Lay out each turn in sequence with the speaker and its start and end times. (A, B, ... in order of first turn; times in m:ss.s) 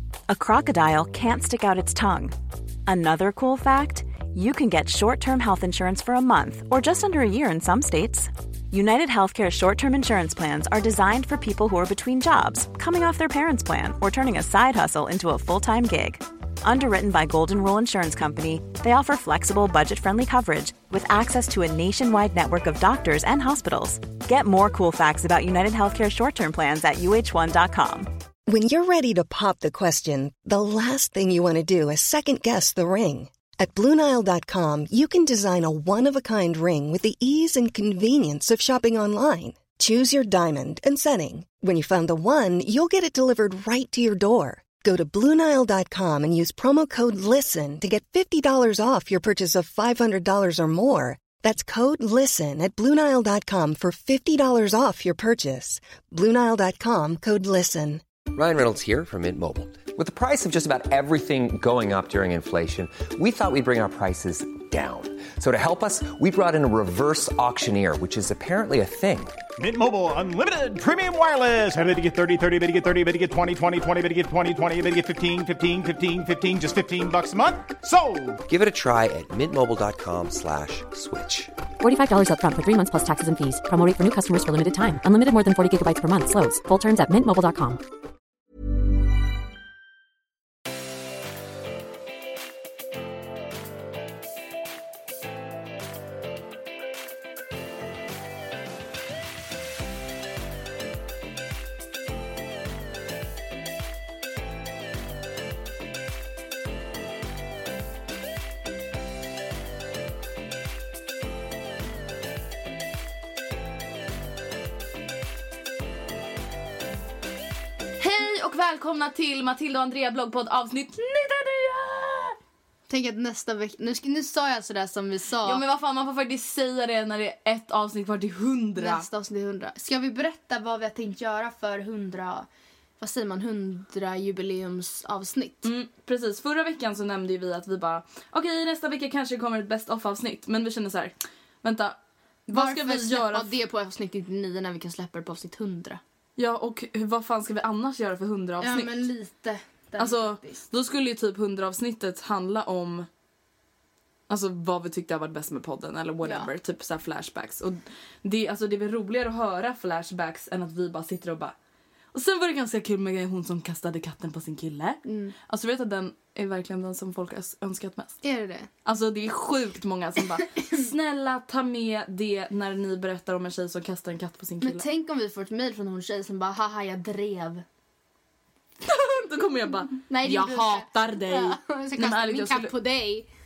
0:00.3-0:02.4 A
0:02.9-0:28.1 A
0:28.5-0:58.0 B
0:58.3-1:09.4 C
1:09.6-1:18.4 D
1:18.5-1:21.5 C
1:21.8-1:27.8 E
1:58.0-2:02.4 F
2:02.9-2:05.6 G
2:05.4-2:09.1 F
2:08.8-2:12.5 G
2:13.0-2:15.7 G
2:15.6-2:22.0 F
2:22.5-2:23.5 F
2:22.5-2:26.0 G
2:26.4-2:29.1 F
2:28.6-2:30.6 G
2:30.0-2:33.1 F
2:34.3-2:41.6 F
2:36.2-2:36.5 G
2:42.1-2:48.2 F
2:45.0-2:45.4 G
2:48.2-2:48.7 G
2:48.8-2:54.8 F
2:54.6-2:57.6 G
2:58.8-3:02.7 F
3:00.1-3:03.3 G